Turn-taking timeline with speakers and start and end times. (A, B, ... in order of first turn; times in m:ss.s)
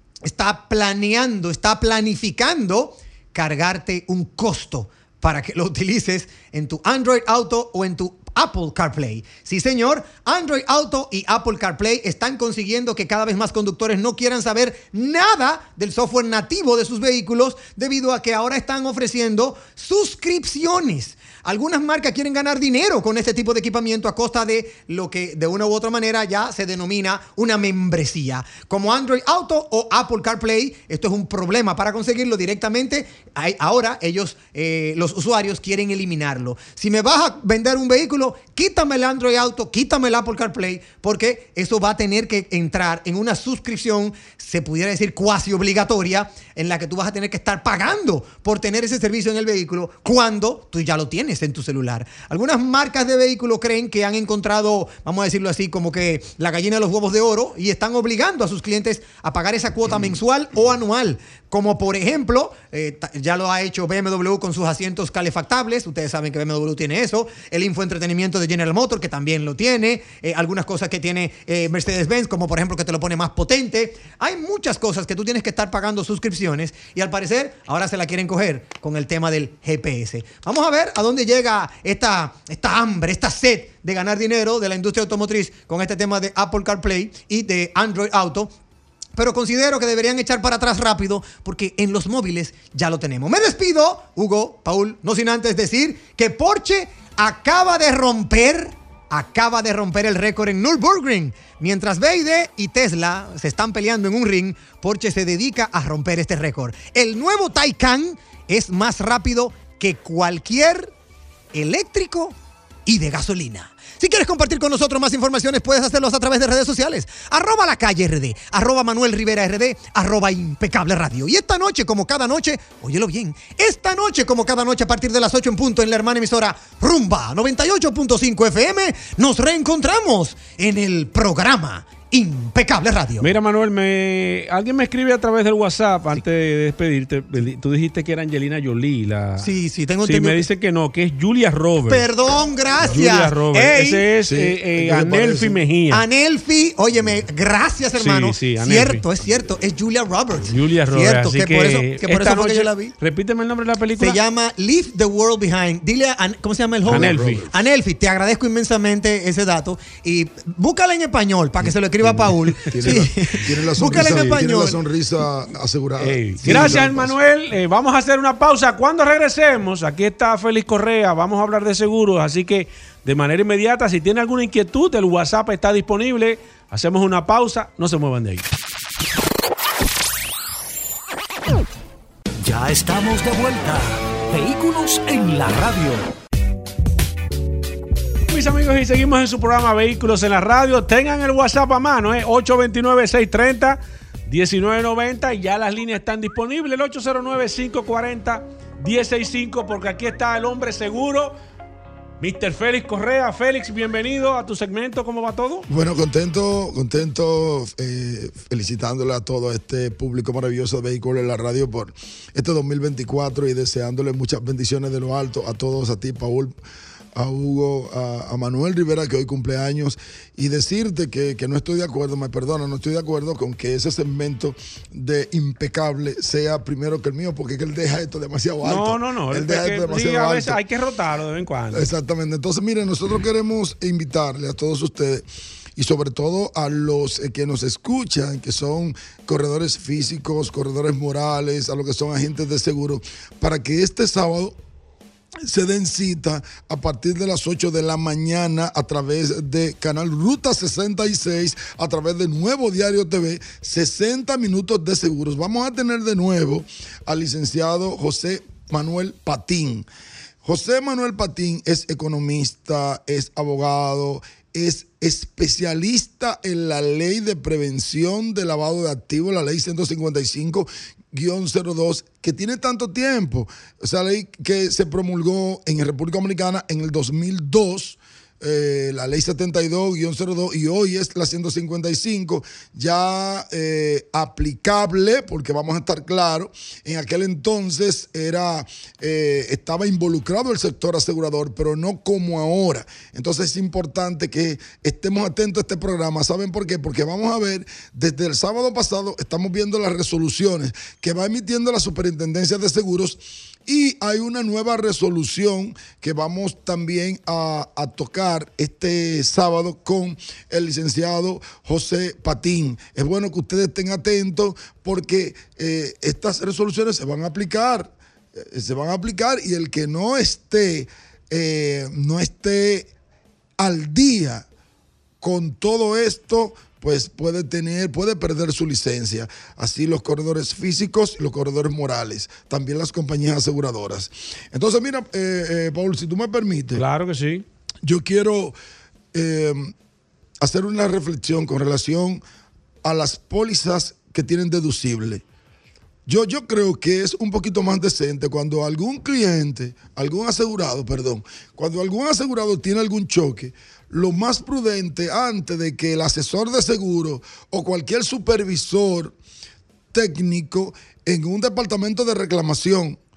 0:00.2-1:28.5 A
1:29.2-1:50.9 A
1:51.5-1:52.3 A
1:52.8-2:13.3 A
2:13.2-2:19.5 B
2:19.4-2:20.4 A
2:20.0-2:22.1 B
2:21.8-2:24.1 A
2:22.8-2:26.0 B
2:24.2-2:25.6 C
2:25.9-2:32.9 A
2:28.0-2:29.0 B
2:30.4-2:34.2 B
2:34.0-2:44.8 A
2:36.8-2:37.5 B
2:36.9-2:37.5 C
2:42.0-2:47.1 C
2:43.9-2:44.4 B
2:46.0-2:58.5 B
3:02.4-3:06.0 D
3:08.3-3:21.4 B
3:22.2-3:25.7 B
3:25.7-3:36.5 C
3:37.2-3:50.6 C
3:48.6-3:51.9 B
3:51.7-3:55.2 C
3:55.8-4:04.6 C
4:05.4-4:19.8 C
4:20.4-5:22.9 C
5:23.6-5:24.4 C
5:25.2-5:36.8 C
5:36.7-5:37.4 B
5:37.8-5:38.6 C
5:39.1-5:39.7 C
5:40.4-5:42.2 C
5:42.8-5:45.2 C
5:46.0-5:59.1 C
5:59.9-6:03.0 C